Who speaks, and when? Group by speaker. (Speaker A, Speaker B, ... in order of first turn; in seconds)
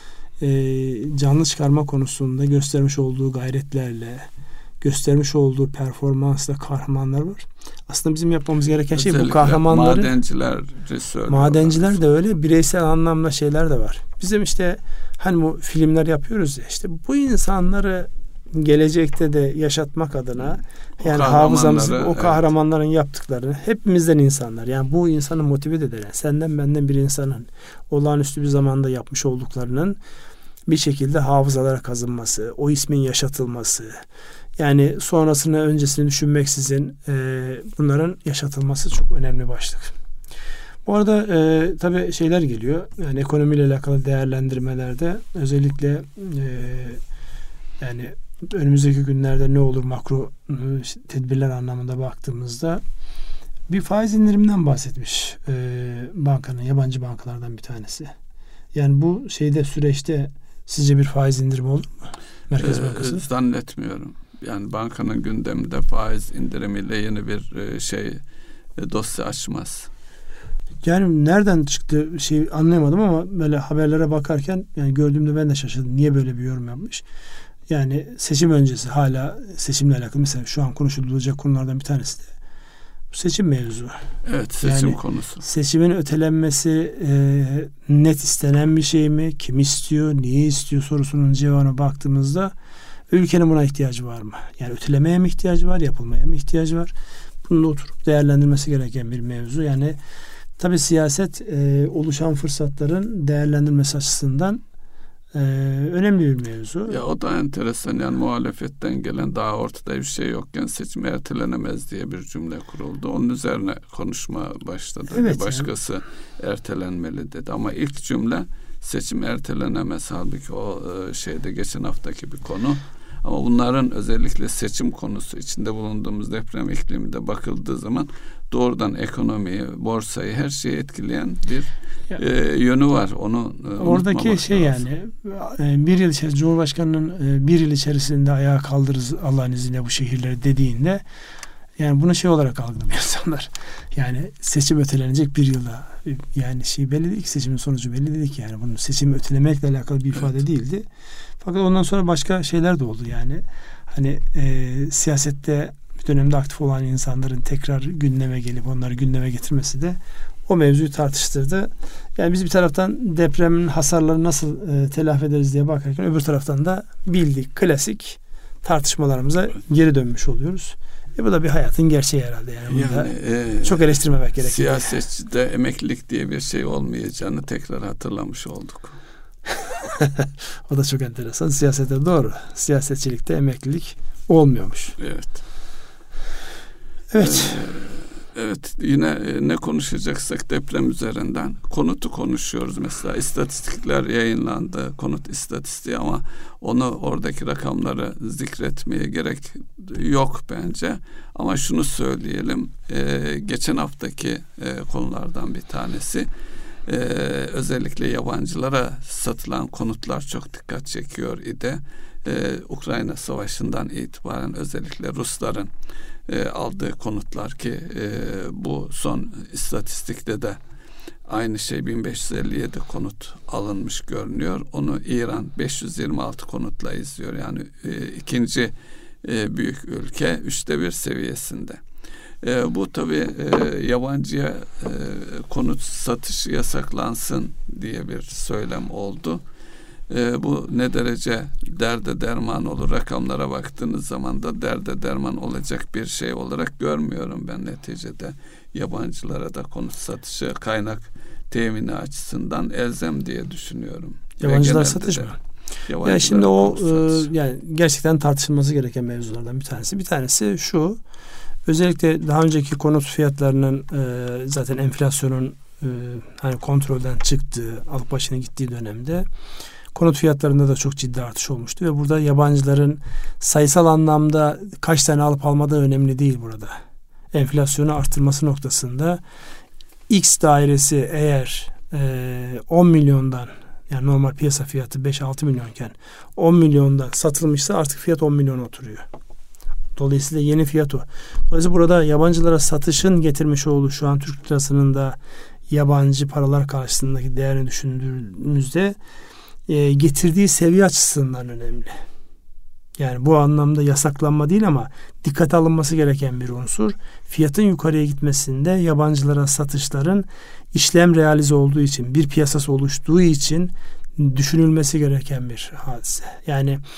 Speaker A: 0.4-4.3, 4.8-10.2, 11.3-30.0, 30.7-33.9, 34.6-39.9, 40.9-47.0, 47.8-52.8, 53.7-58.1, 58.8-63.2, 70.8-77.0, 77.7-82.3, 83.1-84.0, 84.6-92.5, 93.1-96.9, 97.5-100.0, 100.6-104.6, 105.3-107.0, 115.1-115.7, 133.8-141.0, 141.8-150.8, 151.4-175.0, 179.5-185.0, 187.1-187.7, 254.4-255.4, 256.0-261.0, 261.7-269.3, 269.9-276.7, 277.3-279.2, 280.1-289.1, 290.0-295.2, 295.7-299.0, 299.7-302.0, 303.0-316.8
Speaker B: 8.9-12.0, 21.0-22.5, 62.6-68.2, 68.8-69.9, 84.2-85.4, 106.9-134.8, 172.7-179.0, 185.0-185.4, 187.2-206.3, 206.9-215.7, 216.3-220.6, 221.3-231.8, 232.4-239.4, 240.1-255.3, 255.9-257.3